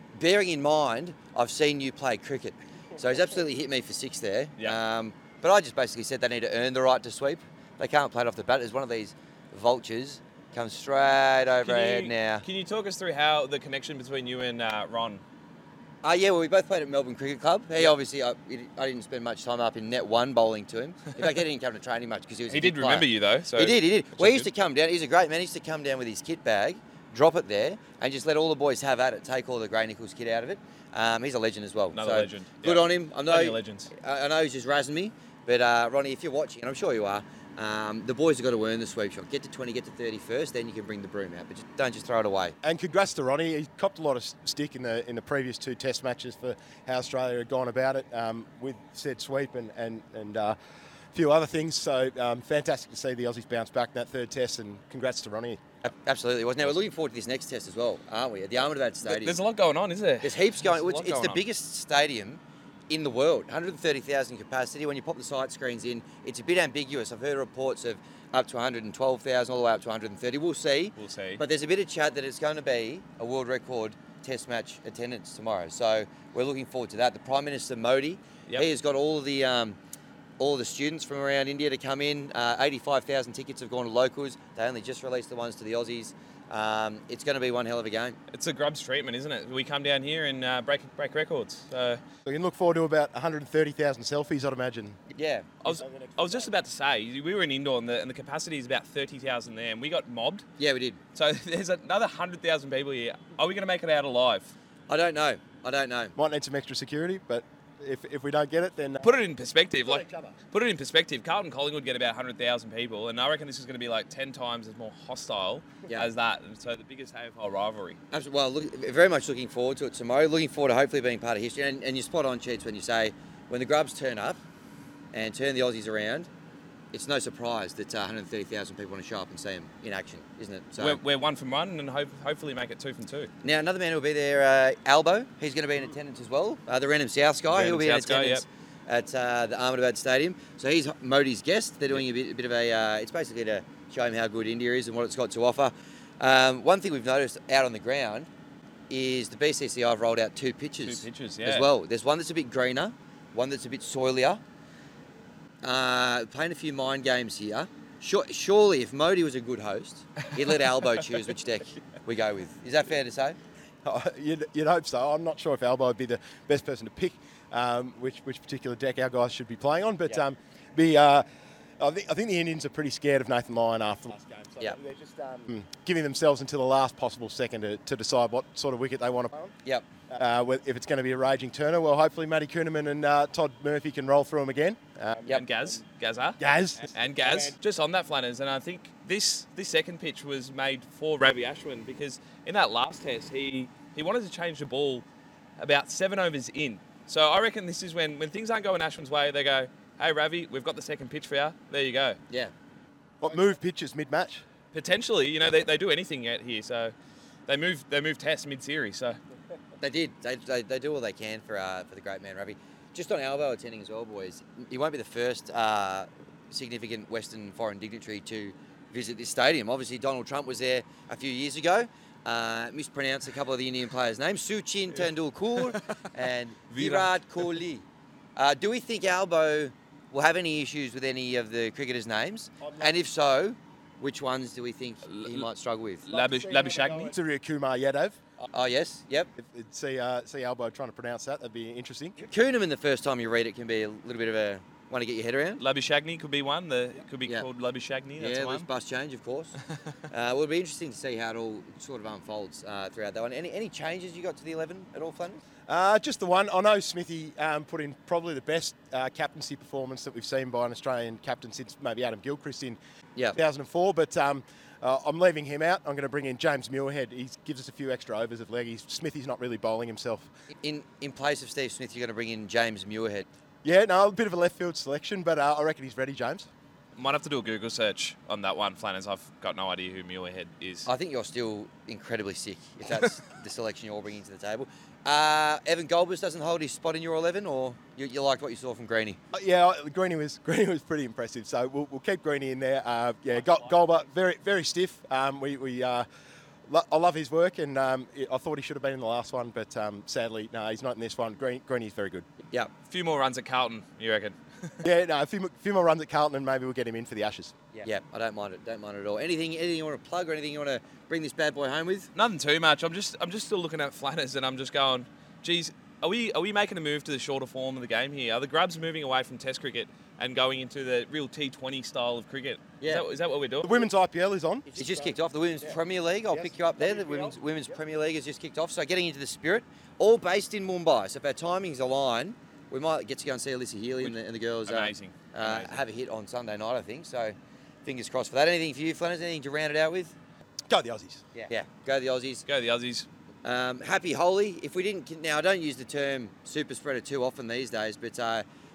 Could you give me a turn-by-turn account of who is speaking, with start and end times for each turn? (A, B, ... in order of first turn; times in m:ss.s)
0:00.1-0:12.4 A
0:11.6-0:15.2 B
0:16.0-0:42.5 A
0:22.5-0:24.5 B
0:31.9-0:33.9 B
0:42.6-0:50.6 C
0:51.1-0:55.6 C
0:55.8-0:59.4 A
0:59.0-1:01.4 B
1:00.2-1:19.8 A
1:11.0-1:11.4 B
1:20.4-1:28.2 A
1:28.3-1:32.0 B
1:32.2-1:35.0 C
1:35.1-1:35.5 A
1:35.6-1:40.4 B
1:35.6-1:36.5 C
1:40.6-1:41.0 A
1:41.1-1:44.5 B
1:44.9-1:46.1 A
1:46.2-1:49.1 C
1:49.0-1:58.0 B
1:49.8-1:50.3 C
1:58.1-2:04.4 A
2:05.1-2:06.3 A
2:06.9-2:11.0 A
2:10.8-2:13.3 B
2:13.4-2:28.3 A
2:17.5-2:18.4 B
2:28.9-2:34.4 A
2:30.8-2:31.7 B
2:35.6-2:43.4 A
2:43.8-2:51.2 C
2:51.8-2:59.5 C
3:00.1-3:05.8 C
3:05.3-3:06.4 B
3:06.4-3:07.6 C
3:06.9-3:15.0 B
3:15.6-3:22.2 B
3:23.2-3:24.4 C
3:24.7-3:26.9 B
3:27.5-3:29.2 B
3:29.8-3:47.8 A
3:46.7-3:47.2 B
3:48.4-3:56.1 A
3:52.6-3:53.0 C
3:55.0-3:55.5 B
3:56.0-3:57.1 B
3:56.1-3:58.2 C
3:58.5-3:59.3 A
3:59.4-4:02.2 C
4:02.2-4:05.6 A
4:05.6-4:08.7 B
4:08.2-4:09.6 A
4:10.1-4:15.4 A
4:15.7-4:22.8 C
4:23.3-4:30.3 C
4:30.6-4:33.3 A
4:33.6-4:36.5 C
4:37.0-4:40.9 B
4:40.8-4:49.2 A
4:49.3-4:56.0 C
4:56.7-5:02.3 C
5:02.9-5:04.8 B
5:04.8-5:07.5 C
5:07.7-5:12.1 A
5:12.1-5:23.8 B
5:23.6-5:25.8 C
5:24.8-5:40.1 A
5:26.3-5:27.4 C
5:34.7-5:35.8 B
5:40.7-5:41.2 C
5:41.3-5:42.4 A
5:42.5-5:43.1 B
5:43.4-5:48.4 A